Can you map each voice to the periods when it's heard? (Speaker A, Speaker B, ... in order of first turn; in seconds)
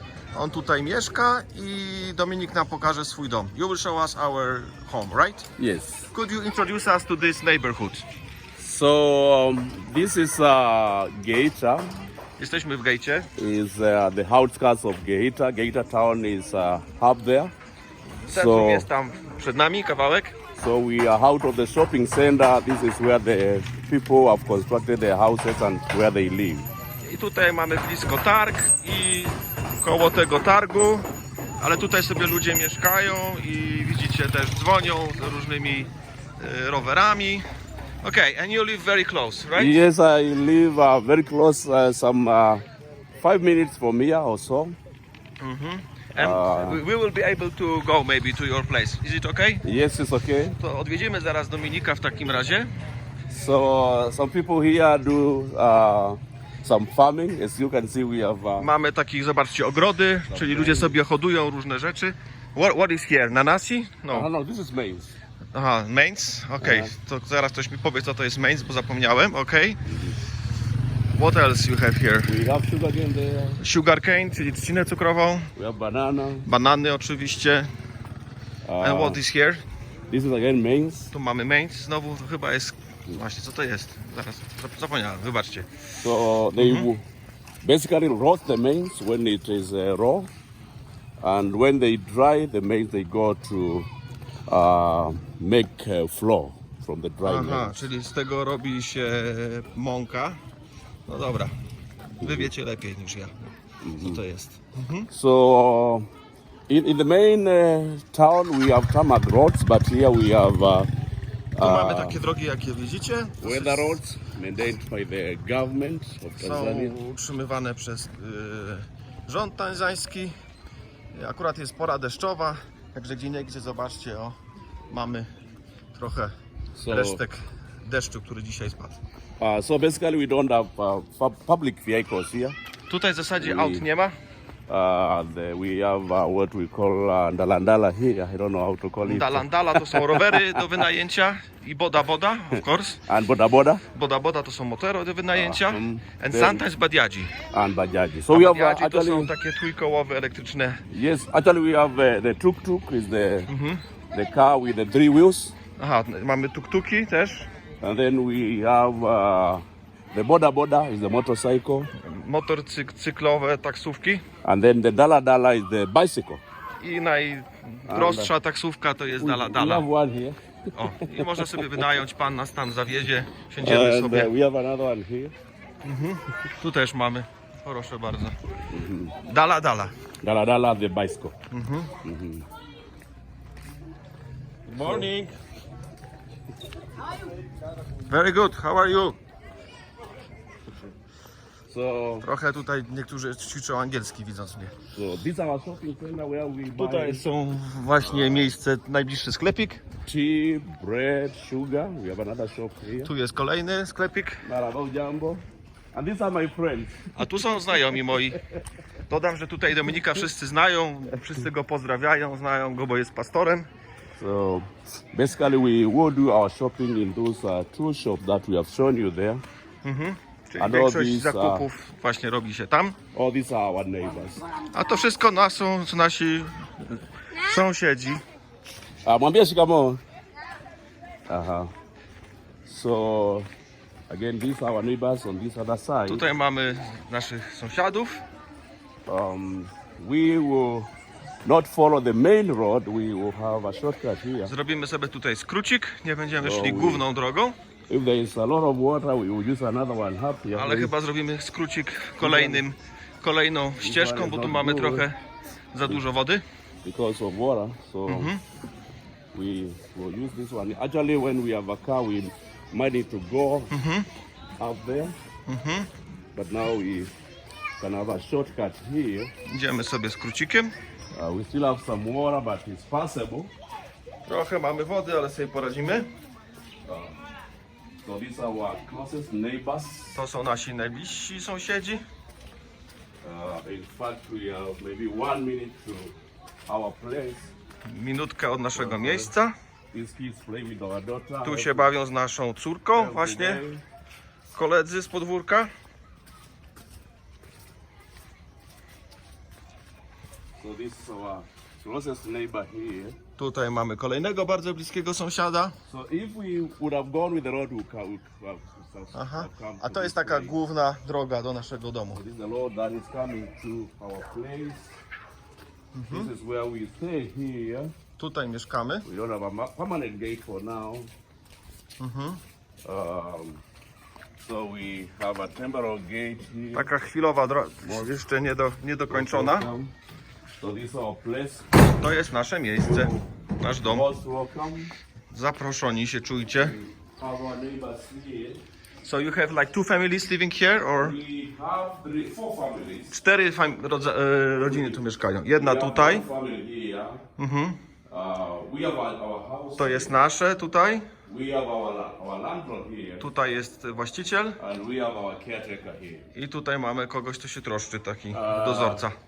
Speaker A: 0.3-5.5, 6.1-8.1, 12.4-13.3, 18.3-20.4, 27.0-31.1, 31.6-37.4, 38.0-39.9, 45.4-49.6, 50.6-52.7, 58.6-64.3, 65.5-69.8, 71.1-72.4, 73.6-75.5, 76.4-77.7, 78.8-79.6, 81.1-85.7, 86.6-86.9, 97.2-100.4, 101.0-101.5, 102.2-103.4, 104.0-105.1, 111.6-114.0, 116.4-120.3, 121.1-124.4, 124.9-125.3, 125.9-126.3, 126.9-129.0, 132.9-134.2, 139.0-143.0, 143.9-147.3, 148.3-150.8, 153.5-153.8, 155.8-157.5, 161.9-164.2, 166.8-169.9, 170.7-174.3, 175.8-178.3, 179.2-179.9, 181.5-181.9, 184.7-185.3, 188.1-189.2, 192.2-194.7, 196.8-199.8, 203.0-204.4, 207.1-208.4, 209.1-213.7, 219.8-223.0, 224.7-228.2, 236.1-238.2, 244.4-247.6, 250.5-255.2, 255.7-256.4, 258.1-258.4, 263.7-264.1, 265.5-265.9, 269.5-270.7, 274.3-276.1, 280.1-282.0, 287.9-289.5, 291.4-293.6, 294.5-295.7, 303.4-305.8, 309.1-312.2, 315.9-316.3, 318.2-319.0, 322.0-322.4, 326.7-329.7, 332.0-334.1, 335.3-336.8, 339.0-341.2, 343.1-346.3, 347.4-347.8, 349.8-351.1, 353.2-354.6, 356.3-359.1
Speaker B: 5.6-6.1, 8.6-11.9, 13.3-17.5, 18.3-18.9, 20.6-26.7, 39.5-42.6, 43.2-44.8, 46.1-46.8, 49.6-50.6, 53.3-58.7, 60.3-61.0, 64.1-65.2, 66.6-66.9, 69.9-70.2, 72.2-73.6, 75.5-76.5, 78.6-79.2, 80.1-81.1, 86.0-87.0, 87.6-90.3, 91.2-93.9, 94.5-97.8, 102.2-102.5, 103.8-104.2, 105.1-106.1, 106.7-110.9, 111.5-112.2, 113.4-117.0, 126.7-127.2, 129.4-132.6, 133.4-133.8, 134.7-140.8, 142.5-143.8, 145.3-146.6, 147.5-149.3, 150.9-153.5, 154.1-155.6, 157.8-161.9, 164.4-166.4, 167.9-168.3, 169.2-171.8, 173.6-175.3, 178.7-179.2, 180.2-181.3, 182.0-182.5, 184.7-185.1, 191.7-192.3, 194.9-197.2, 198.0-198.5, 200.1-203.1, 204.4-207.2, 214.2-219.4, 220.6-221.7, 223.1-224.4, 229.0-230.0, 231.3-231.7, 232.6-233.5, 234.1-236.3, 239.1-240.9, 241.4-244.5, 246.4-247.0, 247.9-250.9, 252.2-252.7, 253.8-255.1, 256.8-258.3, 259.3-263.7, 264.6-265.1, 266.3-267.1, 267.8-269.3, 271.1-273.5, 276.8-277.2, 278.0-280.2, 283.2-287.5, 288.7-289.3, 289.9-291.9, 292.9-293.8, 300.6-303.2, 305.9-310.6, 312.1-315.0, 316.1-317.9, 319.0-321.1, 322.8-323.6, 324.4-326.9, 327.8-328.2, 329.1-329.9, 330.6-331.9, 332.8-333.3, 333.8-334.9, 336.6-338.6, 341.0-343.2, 344.6-347.2, 348.1-350.1, 351.2-353.3, 354.6-356.3, 358.3-359.1